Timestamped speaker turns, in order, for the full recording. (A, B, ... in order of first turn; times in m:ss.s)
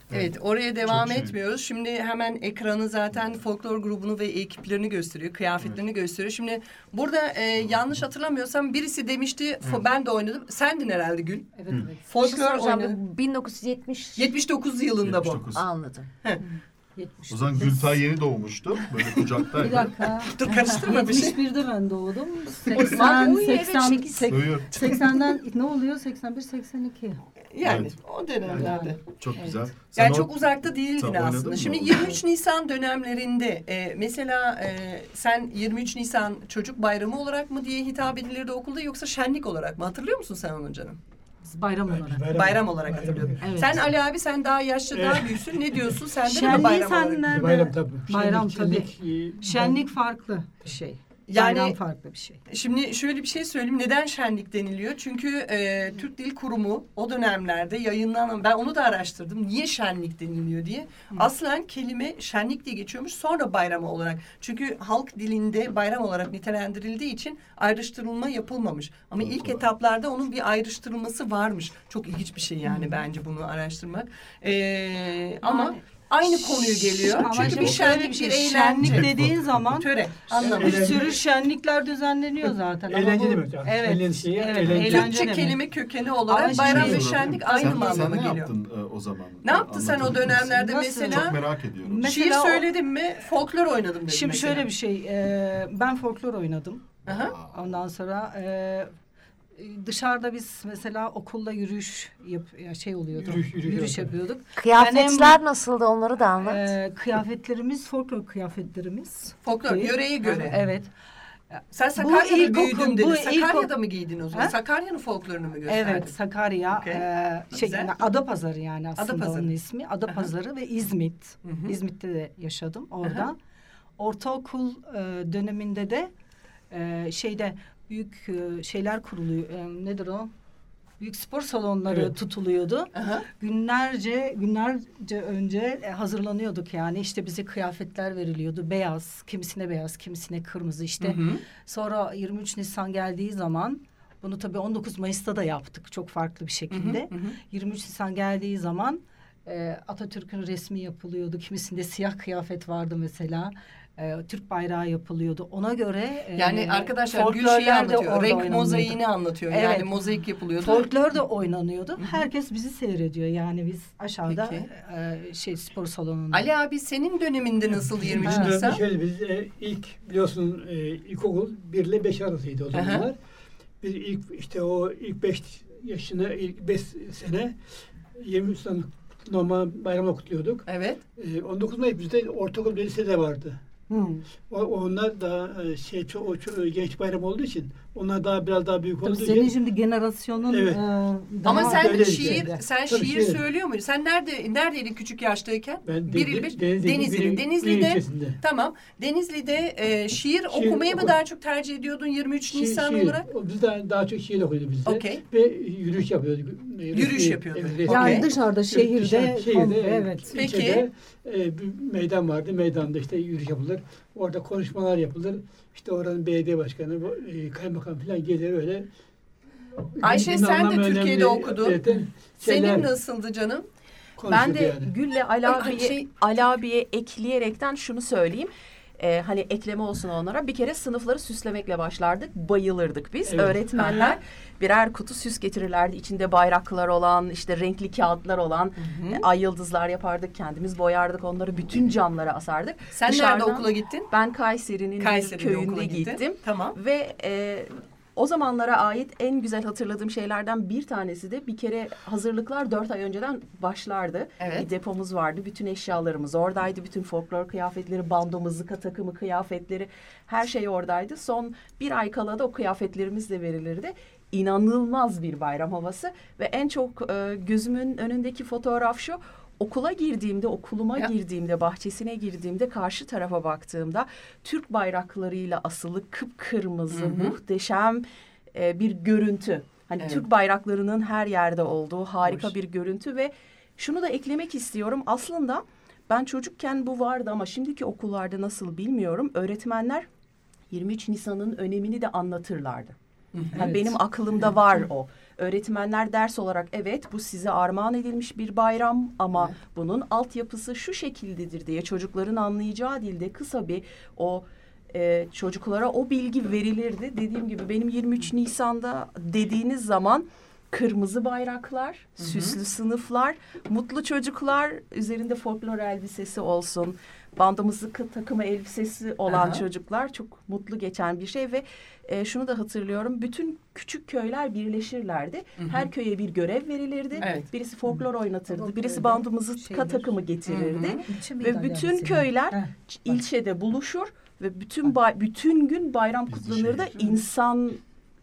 0:00.1-0:01.3 A
0:00.1-0:11.5 B
0:07.6-0:08.0 A
0:11.6-0:12.1 C
0:12.1-0:13.0 B
0:12.2-0:14.3 D
0:14.2-0:15.6 B
0:15.0-0:15.6 A
0:15.5-0:16.1 D
0:17.0-0:18.0 C
0:17.3-0:20.0 A
0:19.6-0:27.2 C
0:20.3-0:21.4 B
0:22.8-0:24.3 E
0:24.2-0:24.8 A
0:27.5-0:29.0 B
0:27.6-0:28.0 A
0:28.5-0:29.6 C
0:28.5-0:32.2 A
0:29.9-0:41.0 B
0:41.4-0:42.2 C
0:41.9-0:43.9 F
0:42.3-0:47.3 B
0:43.4-0:43.8 C
0:44.9-0:45.8 F
0:46.2-0:52.4 C
0:46.4-0:46.7 F
0:47.3-0:49.9 F
0:51.3-0:51.8 B
0:52.5-1:19.2 B
1:09.2-1:09.6 A
1:12.6-1:12.9 C
1:15.4-1:25.6 C
1:17.2-1:17.8 A
1:18.8-1:19.6 A
1:19.8-1:21.2 B
1:20.4-1:21.2 F
1:22.9-1:25.3 F
1:24.6-1:28.5 B
1:26.3-1:28.1 C
1:26.5-1:32.1 A
1:29.4-1:31.4 B
1:30.2-1:31.3 C
1:31.8-1:32.7 C
1:32.1-1:34.7 B
1:34.1-1:36.8 C
1:37.0-1:37.3 B
1:37.0-1:37.5 A
1:37.5-1:38.9 C
1:39.6-1:45.4 C
1:43.1-1:44.1 F
1:44.6-1:46.7 D
1:46.4-1:50.9 C
1:49.4-1:50.5 B
1:51.5-1:53.7 C
1:51.7-1:56.1 B
1:55.7-2:03.4 C
1:56.7-1:57.9 B
1:59.0-1:59.5 B
2:01.4-2:01.7 B
2:04.0-2:06.1 C
2:06.7-2:10.3 C
2:11.0-2:39.9 C
2:11.9-2:12.1 F
2:12.9-2:13.2 B
2:21.0-2:21.4 B
2:26.7-2:27.4 B
2:36.3-2:40.9 B
2:40.6-2:46.4 C
2:44.3-2:44.7 B
2:46.3-2:48.8 B
2:48.0-2:53.2 F
2:48.2-2:48.5 C
2:52.7-2:53.1 B
2:53.8-2:57.6 F
2:58.1-3:00.6 F
3:00.7-3:01.0 B
3:01.2-3:03.6 F
3:03.9-3:04.2 C
3:04.5-3:09.5 F
3:09.0-3:12.6 C
3:10.5-3:10.8 F
3:11.4-3:13.4 F
3:11.4-3:23.2 B
3:15.8-3:18.4 F
3:20.5-3:21.2 F
3:22.5-3:38.9 F
3:24.8-3:25.2 B
3:26.9-3:28.3 B
3:27.8-3:30.3 C
3:30.3-3:30.8 B
3:39.9-3:42.9 F
3:40.0-3:41.8 B
3:42.4-3:43.6 B
3:44.2-3:44.9 F
3:44.3-4:50.1 E
3:45.4-3:46.0 B
3:53.2-3:54.1 F
3:53.7-3:54.2 B
3:58.8-3:59.2 B
4:02.9-4:04.1 B
4:05.0-4:06.8 B
4:14.4-4:14.7 B
4:36.9-4:37.4 B
4:50.7-4:52.9 E
4:53.3-4:53.7 B
4:53.5-5:37.8 E
4:53.6-4:53.9 C
5:12.2-5:12.6 B
5:19.3-5:19.6 B
5:25.6-5:25.9 B
5:27.2-5:27.5 B
5:27.8-5:30.1 C
5:30.5-5:31.0 B
5:31.0-5:32.7 C
5:36.3-5:36.9 A